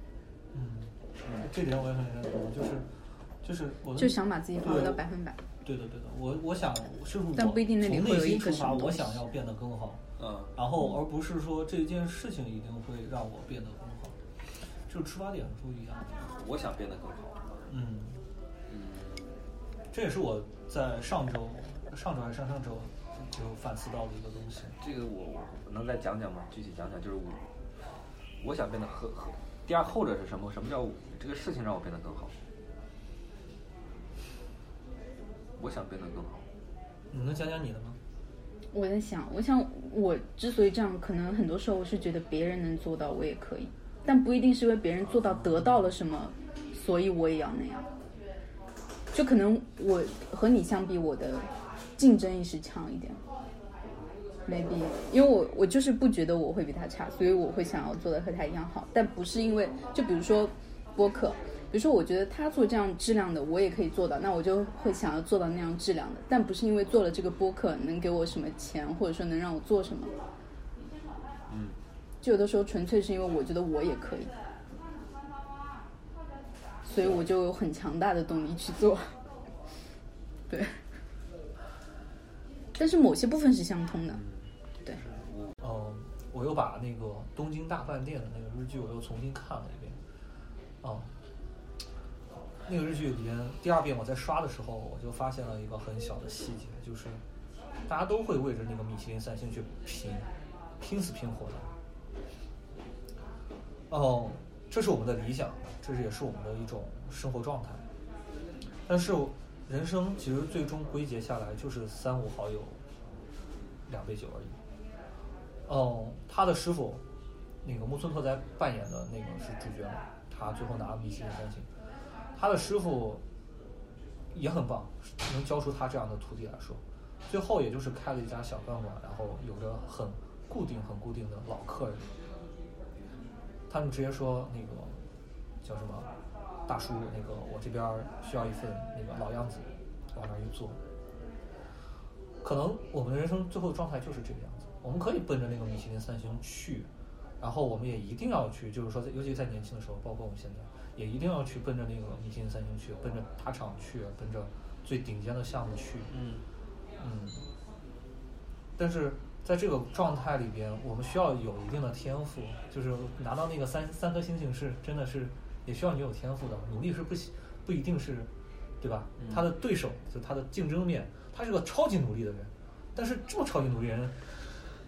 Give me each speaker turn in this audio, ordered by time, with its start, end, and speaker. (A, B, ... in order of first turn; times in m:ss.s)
0:00.5-0:02.9 A
0:03.4-0:05.0 A
0:04.0-0:05.4 B
0:05.6-0:10.0 A
0:07.4-0:09.2 B
0:10.2-0:10.5 C
0:10.5-0:14.2 A
0:14.8-0:16.2 A
0:16.1-0:17.6 C
0:17.7-0:18.2 A
0:18.7-0:19.3 C
0:19.9-0:24.7 A
0:24.7-0:27.4 C
0:28.4-0:32.3 C
0:35.6-0:36.4 C
0:37.1-0:38.0 A
0:38.7-0:47.9 B
0:49.1-0:53.2 B
0:54.4-1:10.1 B
1:11.5-1:11.8 C
1:12.2-1:14.3 B
1:16.8-1:19.2 B
1:20.5-1:20.8 B
1:22.7-1:24.2 B
1:24.1-1:25.6 C
1:25.6-1:30.0 A
1:30.8-1:31.1 A
1:32.6-1:37.2 A
1:37.9-1:40.3 A
1:40.8-1:41.7 A
1:43.9-1:47.8 A
1:48.8-1:52.8 A
1:53.8-1:54.6 A
1:55.6-1:57.0 A
1:57.6-2:01.7 A
2:02.3-2:03.2 A
2:04.3-2:12.1 A
2:13.7-2:15.0 A
2:15.6-2:16.1 A
2:16.7-2:20.8 A
2:22.4-2:36.1 A
2:36.1-2:36.4 C
2:37.0-2:37.5 A
2:38.8-2:54.5 A
2:49.2-2:49.5 C